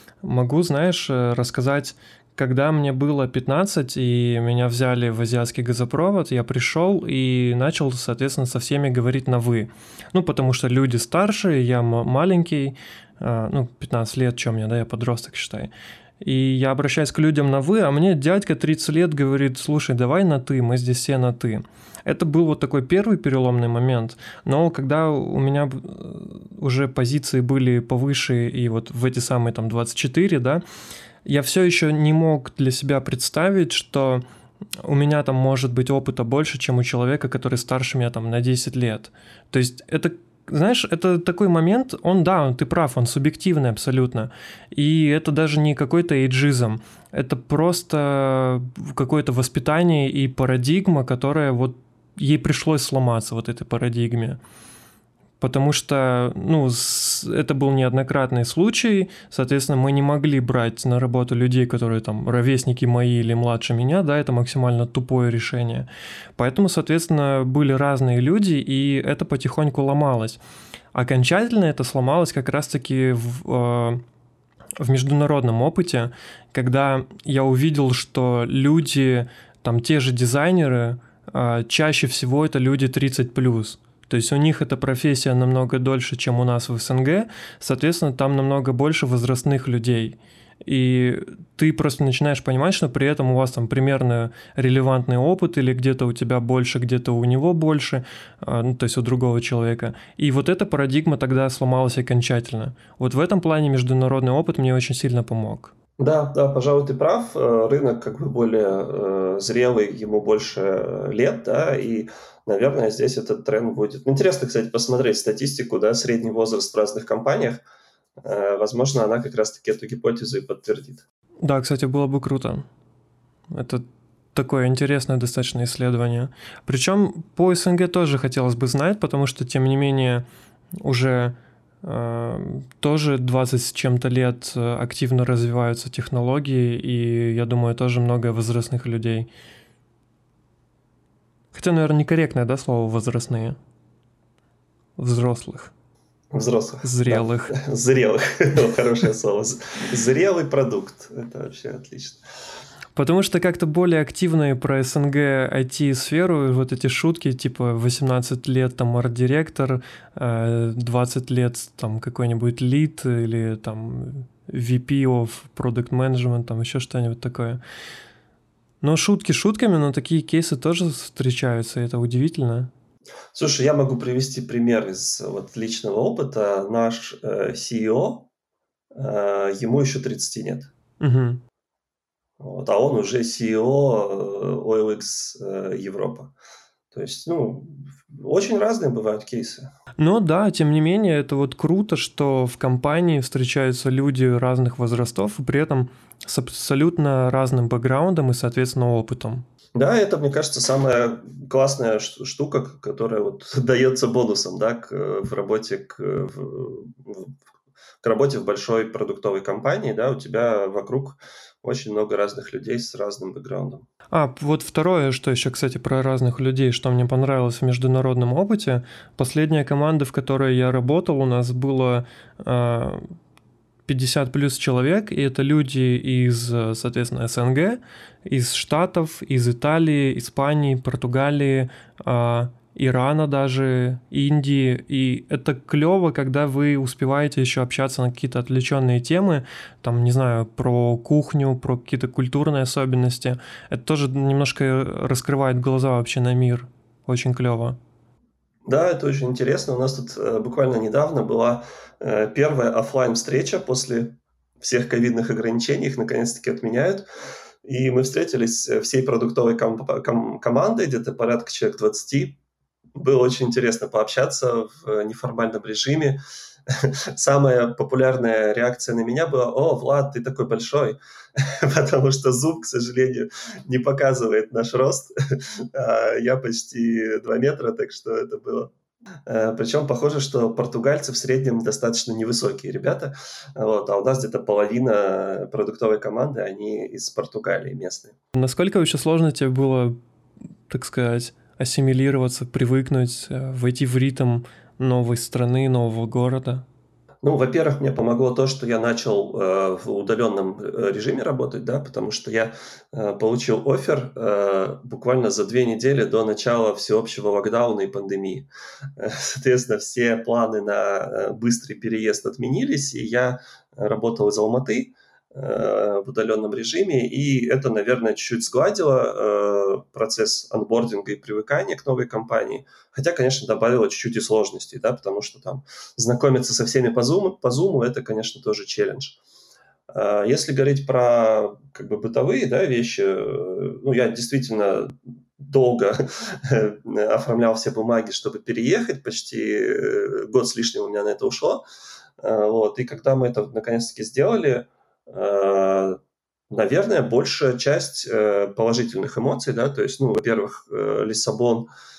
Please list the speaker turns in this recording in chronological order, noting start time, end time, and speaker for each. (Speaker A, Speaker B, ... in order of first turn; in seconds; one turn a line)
Speaker A: 0.2-30.6
Speaker A: 31.2-34.2
Speaker A: 34.8-54.4
Speaker A: 55.4-70.4
Speaker A: 70.9-74.0
Speaker A: 74.8-105.7
Speaker B: 106.0-117.6
Speaker B: 118.2-121.0
Speaker A: 121.4-122.6
Speaker A: 123.5-130.2
Speaker A: 130.8-139.3
Speaker A: 141.5-143.6
Speaker A: 145.0-145.7
Speaker B: 146.3-152.2
Speaker A: 146.8-147.5
Speaker A: 152.9-167.6
Speaker A: 168.8-172.7
Speaker B: 173.3-178.3
Speaker B: 178.9-180.7
Speaker A: 181.0-181.4
Speaker B: 182.4-186.3
Speaker B: 186.9-189.7
Speaker A: 190.0-199.4
Speaker B: 199.7-207.3
Speaker B: 208.0-213.8
Speaker A: 214.1-223.1
Speaker A: 223.9-247.8
Speaker B: 248.7-257.1
Speaker B: 257.6-262.4
Speaker B: 262.9-266.2
Speaker B: 266.8-278.7
Speaker B: 279.2-288.1
Speaker A: 288.3-290.0
Speaker A: 290.7-296.6
Speaker B: 297.2-329.2
Speaker B: 329.9-341.6
Speaker B: 342.2-346.0
Speaker B: 346.5-351.7